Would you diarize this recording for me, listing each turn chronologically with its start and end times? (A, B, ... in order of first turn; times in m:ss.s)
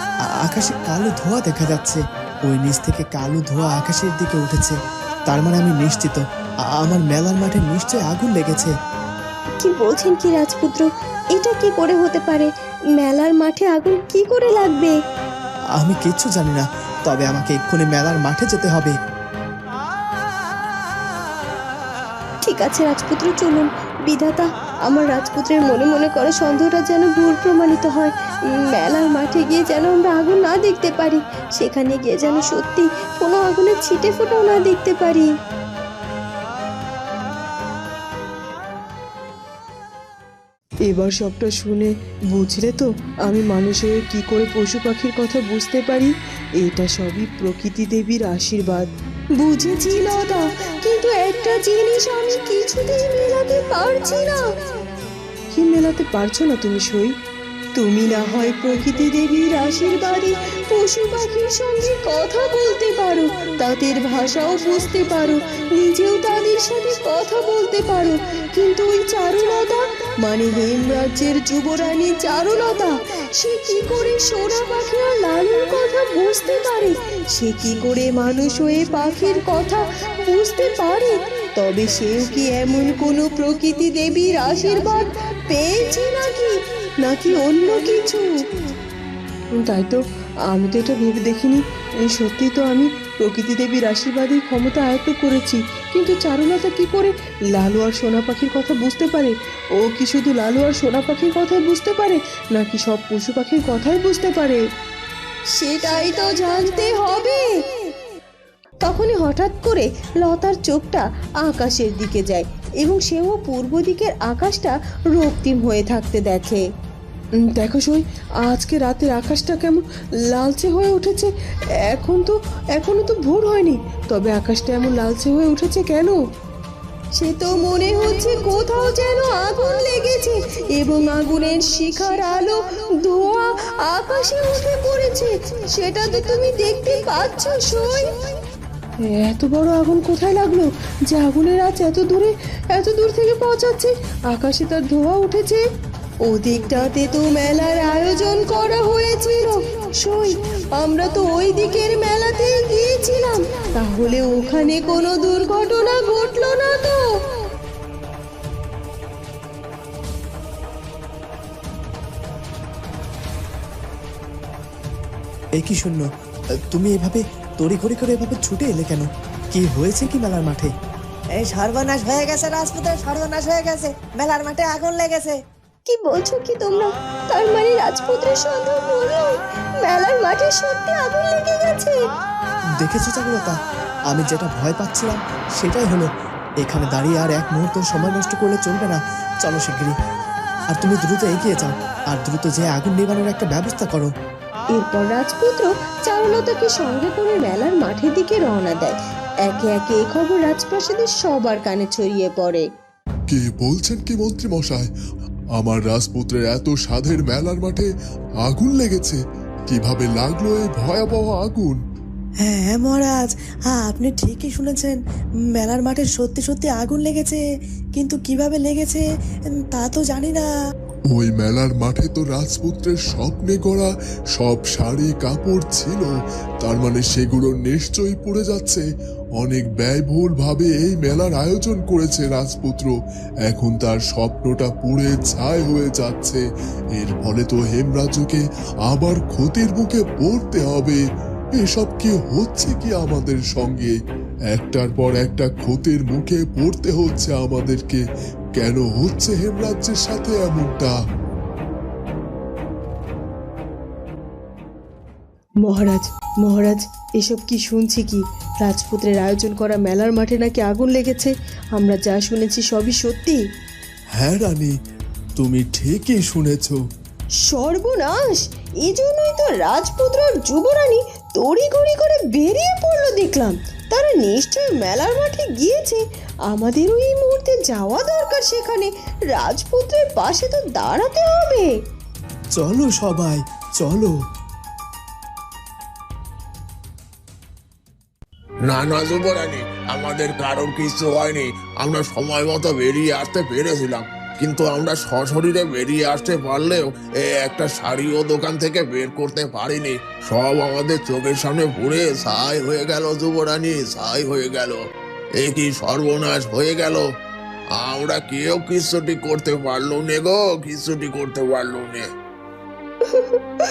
0:00.4-0:04.7 A
0:05.3-0:06.2 A
0:06.8-0:08.7 A
0:09.6-0:15.0 B
0:15.8-0:18.9 A
0:22.4-0:28.1 B
0:28.7-0:35.3 B
0:40.9-0:48.9 C
0:49.4-0:54.5 B
0:55.5-0:57.1 C
0:57.8-1:28.5 B
1:29.6-1:44.6 C
1:45.5-1:47.6 B
1:48.8-1:56.6 B
1:57.5-2:01.3 C
2:01.8-2:06.2 C
2:07.2-2:18.2 B
2:19.1-2:25.6 C
2:26.2-2:37.2 B
2:45.5-2:46.0 A
2:46.7-2:50.7 A
2:51.3-2:55.3 D
2:55.9-3:02.0 B
3:02.8-3:03.5 A
3:04.1-3:06.1 A
3:06.6-3:09.9 A
3:10.7-3:14.1 A
3:14.7-3:22.6 B
3:23.3-3:24.9 E
3:25.6-3:27.9 E
3:28.4-3:31.8 E
3:41.1-3:46.1 E
3:46.6-3:48.8 E
3:49.4-3:52.9 E
3:53.4-3:56.4 E
3:57.0-4:01.0 E
4:01.6-4:03.9 E
4:04.5-4:08.0 E
4:08.6-4:10.9 E
4:15.6-4:23.4 C
4:24.2-4:24.4 E
4:25.7-4:26.8 E
4:27.4-4:41.7 B
4:42.6-4:44.1 A
4:48.6-5:04.8 F
5:05.4-5:07.0 F
5:07.7-5:12.1 F